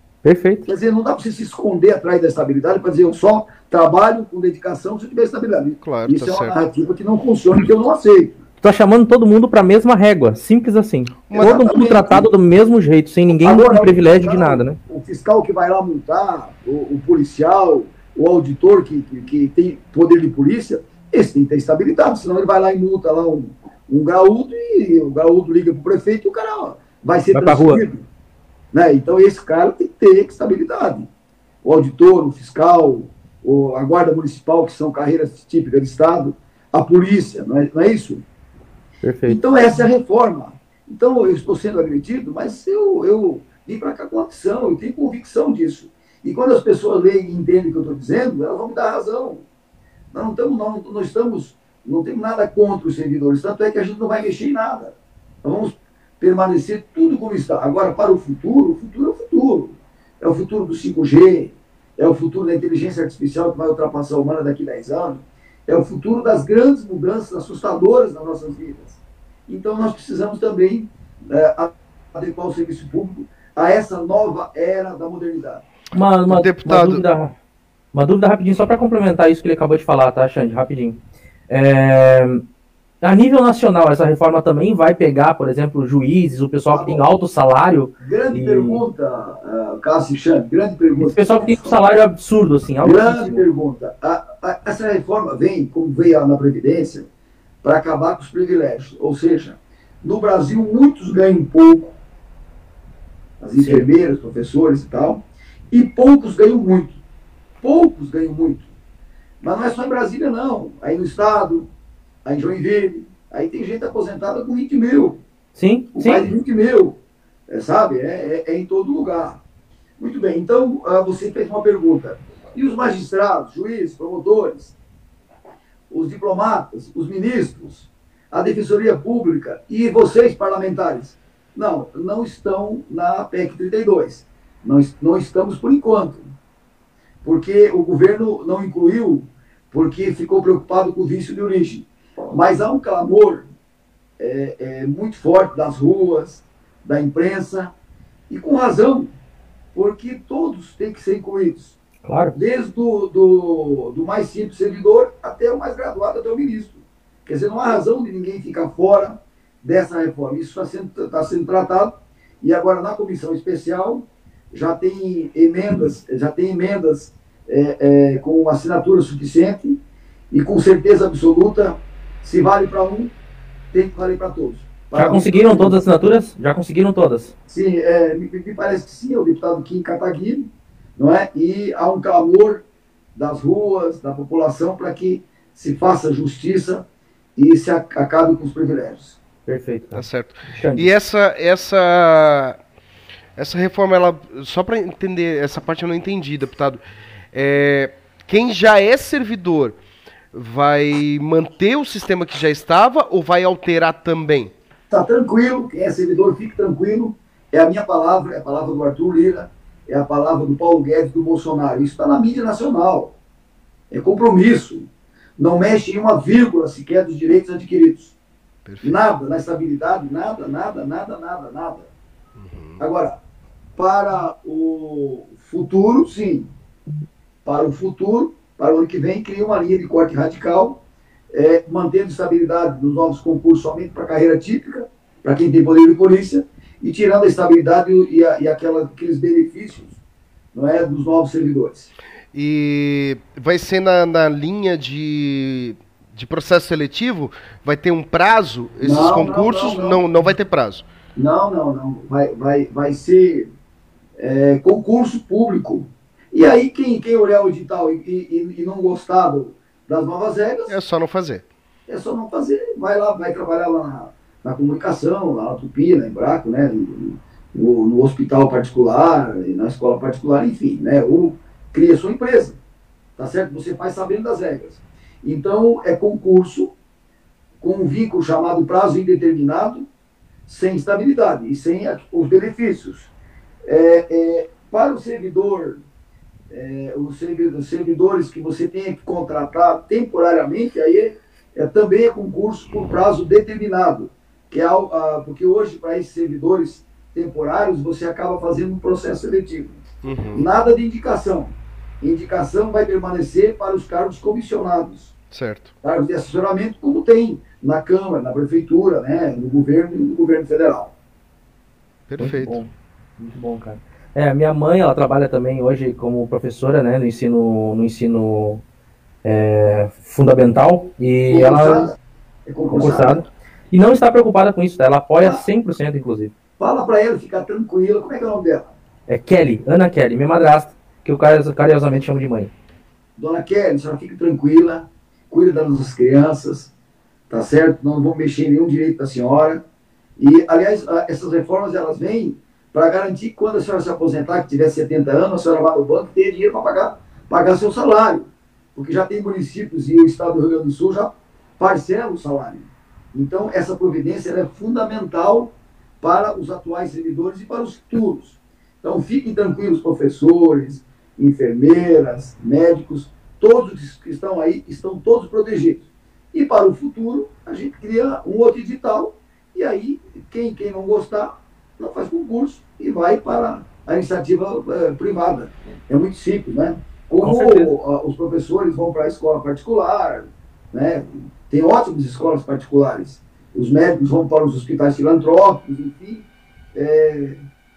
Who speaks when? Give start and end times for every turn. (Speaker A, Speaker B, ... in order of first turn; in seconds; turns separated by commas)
Speaker A: 0.2-0.7, Speaker B: 0.7-8.4, Speaker C: 5.8-6.6, Speaker A: 8.6-14.8, Speaker C: 11.3-11.6, Speaker B: 11.4-12.3, Speaker B: 13.3-28.1, Speaker A: 27.3-27.8, Speaker B: 28.7-31.1, Speaker B: 31.6-38.2, Speaker A: 39.0-39.4, Speaker B: 39.3-49.4, Speaker B: 50.1-75.6, Speaker A: 75.9-77.3, Speaker C: 76.3-77.0, Speaker A: 77.9-82.4, Speaker A: 83.0-88.8, Speaker B: 86.7-87.0, Speaker B: 88.0-91.7, Speaker A: 91.0-93.5, Speaker B: 92.8-97.1, Speaker B: 97.6-102.0, Speaker B: 103.4-107.0, Speaker A: 103.6-103.9, Speaker B: 107.6-108.7, Speaker B: 109.4-111.7, Speaker B: 112.2-115.2, Speaker A: 115.5-116.3, Speaker B: 116.0-117.0, Speaker B: 117.5-119.4, Speaker B: 120.0-124.8, Speaker B: 125.9-136.3, Speaker B: 137.2-143.5, Speaker B: 144.2-147.7, Speaker B: 148.3-149.1, Speaker B: 149.8-151.8, Speaker A: 152.0-152.3, Speaker B: 152.3-169.8, Speaker B: 170.3-173.1, Speaker B: 173.7-175.8, Speaker A: 174.9-177.3, Speaker B: 177.5-182.6, Speaker B: 183.2-186.8, Speaker B: 187.4-189.2, Speaker A: 189.5-190.9, Speaker C: 189.9-192.6, Speaker C: 193.4-196.8, Speaker C: 197.3-199.8, Speaker C: 200.3-204.5, Speaker B: 204.9-213.1, Speaker B: 213.9-214.9, Speaker B: 215.4-218.2, Speaker C: 218.7-219.0, Speaker B: 218.8-221.9, Speaker C: 222.4-222.8, Speaker B: 222.8-223.2, Speaker B: 223.8-226.5, Speaker B: 227.4-230.8, Speaker B: 231.3-240.0, Speaker B: 240.5-241.9, Speaker C: 242.3-250.9, Speaker B: 248.8-250.0, Speaker B: 251.2-253.5, Speaker B: 254.2-260.7, Speaker C: 260.7-261.4, Speaker B: 261.9-272.6, Speaker B: 273.2-276.7, Speaker B: 277.6-279.9, Speaker B: 280.5-283.1, Speaker B: 283.7-285.8, Speaker B: 286.5-299.8, Speaker C: 300.0-300.5, Speaker B: 300.4-305.1, Speaker C: 305.3-305.7, Speaker B: 305.8-310.9, Speaker C: 312.1-312.6, Speaker A: 312.2-318.6, Speaker A: 319.2-321.9, Speaker B: 321.3-321.9, Speaker B: 322.5-323.2, Speaker A: 322.7-326.3, Speaker B: 326.6-328.7, Speaker A: 329.1-332.5, Speaker B: 333.2-336.7, Speaker B: 337.3-339.6, Speaker B: 340.2-387.4, Speaker A: 377.2-377.7